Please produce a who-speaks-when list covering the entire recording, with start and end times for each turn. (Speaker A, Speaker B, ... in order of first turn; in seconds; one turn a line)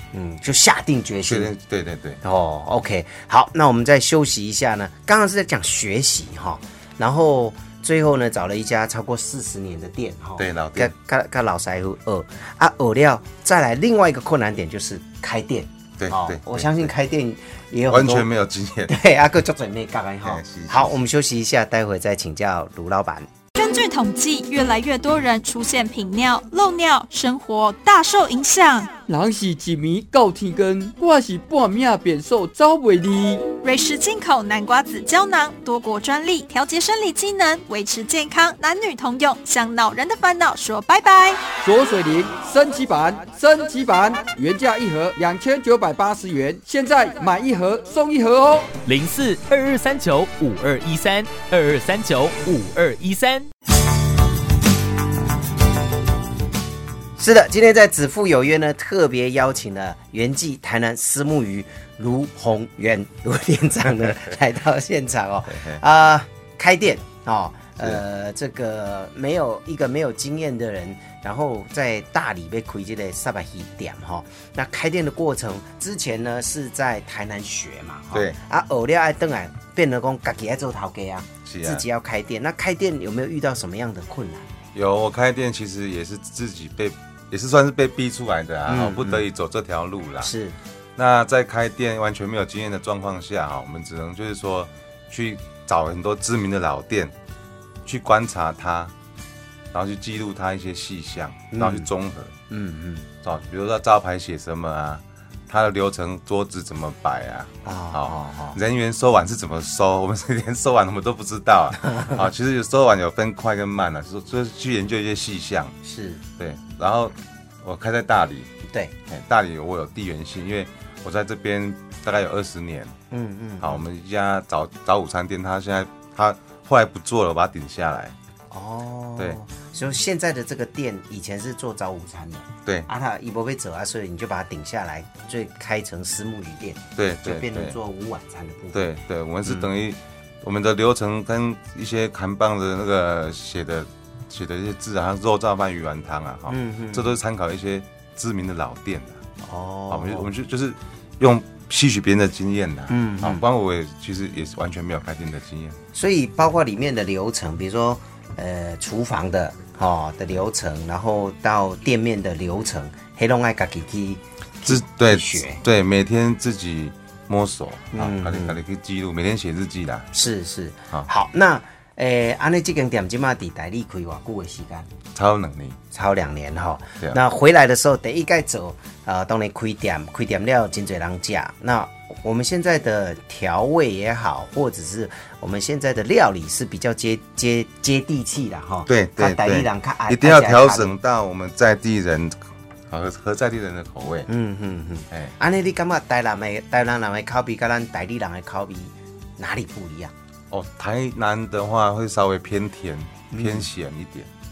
Speaker A: 0.1-1.5
Speaker B: 1.3-2.2
Speaker A: 2.2-18.3
Speaker B: 10.4-10.9
Speaker B: 16.0-16.9
Speaker B: 17.9-19.0
Speaker A: 18.9-23.3
Speaker B: 20.2-21.0
Speaker C: 23.6-28.9
Speaker D: 29.1-33.5
Speaker C: 33.6-41.4
Speaker D: 41.6-48.8
Speaker E: 48.8-53.5
Speaker A: 57.2-84.5
Speaker B: 65.5-65.8
Speaker B: 81.5-81.8
Speaker B: 84.7-90.3
Speaker A: 88.7-89.2
Speaker A: 90.2-90.6
Speaker B: 91.0-97.1
Speaker B: 97.8-98.9
Speaker B: 99.7-102.3
Speaker A: 101.5-101.9
Speaker A: 102.5-103.1
Speaker B: 103.2-115.8
Speaker A: 107.6-108.6
Speaker A: 115.8-116.2
Speaker B: 116.4-118.5
Speaker A: 118.7-118.9
Speaker B: 119.1-123.0
Speaker A: 123.1-123.8
Speaker B: 123.6-128.1
Speaker A: 128.5-138.8
Speaker B: 137.0-137.8
Speaker B: 138.7-149.2
Speaker A: 146.5-147.2
Speaker A: 149.4-150.3
Speaker B: 149.9-155.8
Speaker A: 152.9-153.4
Speaker A: 155.9-165.6
Speaker B: 164.6-170.1
Speaker A: 167.9-168.6
Speaker A: 170.1-174.9
Speaker B: 175.1-175.8
Speaker A: 175.9-190.9
Speaker B: 188.9-194.3
Speaker A: 194.3-200.1
Speaker B: 200.5-204.3
Speaker A: 203.3-203.7